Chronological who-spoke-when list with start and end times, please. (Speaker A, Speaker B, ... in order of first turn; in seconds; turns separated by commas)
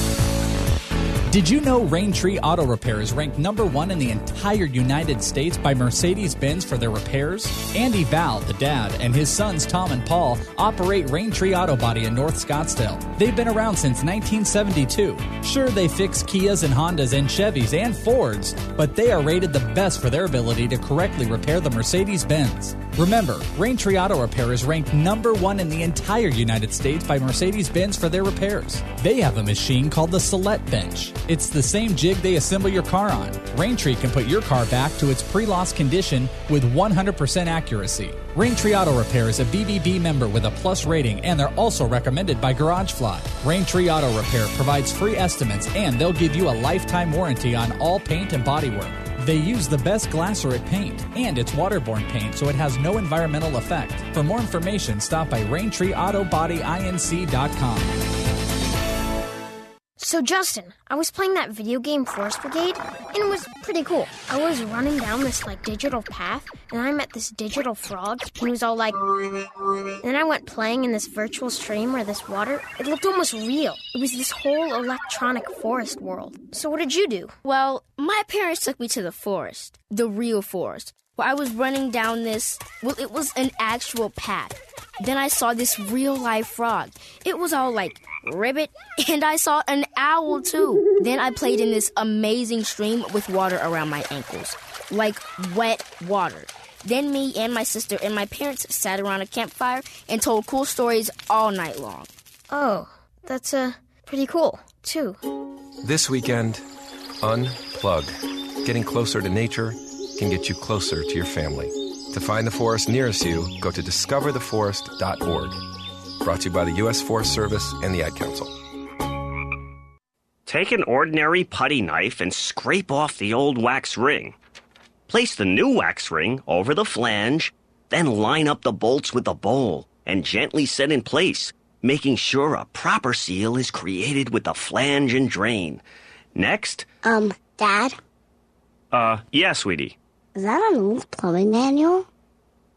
Speaker A: 1.3-58.0, Speaker B: 60.0-69.0, Speaker B: 70.0-77.4, Speaker C: 77.4-102.1, Speaker B: 102.5-105.2, Speaker D: 105.8-106.5, Speaker D: 107.4-107.9, Speaker D: 108.7-109.2, Speaker D: 112.2-112.7, Speaker D: 117.2-118.3, Speaker E: 120.5-124.4, Speaker E: 125.1-135.8, Speaker E: 136.3-136.9, Speaker F: 137.1-138.0, Speaker E: 138.9-140.0, Speaker F: 140.4-142.1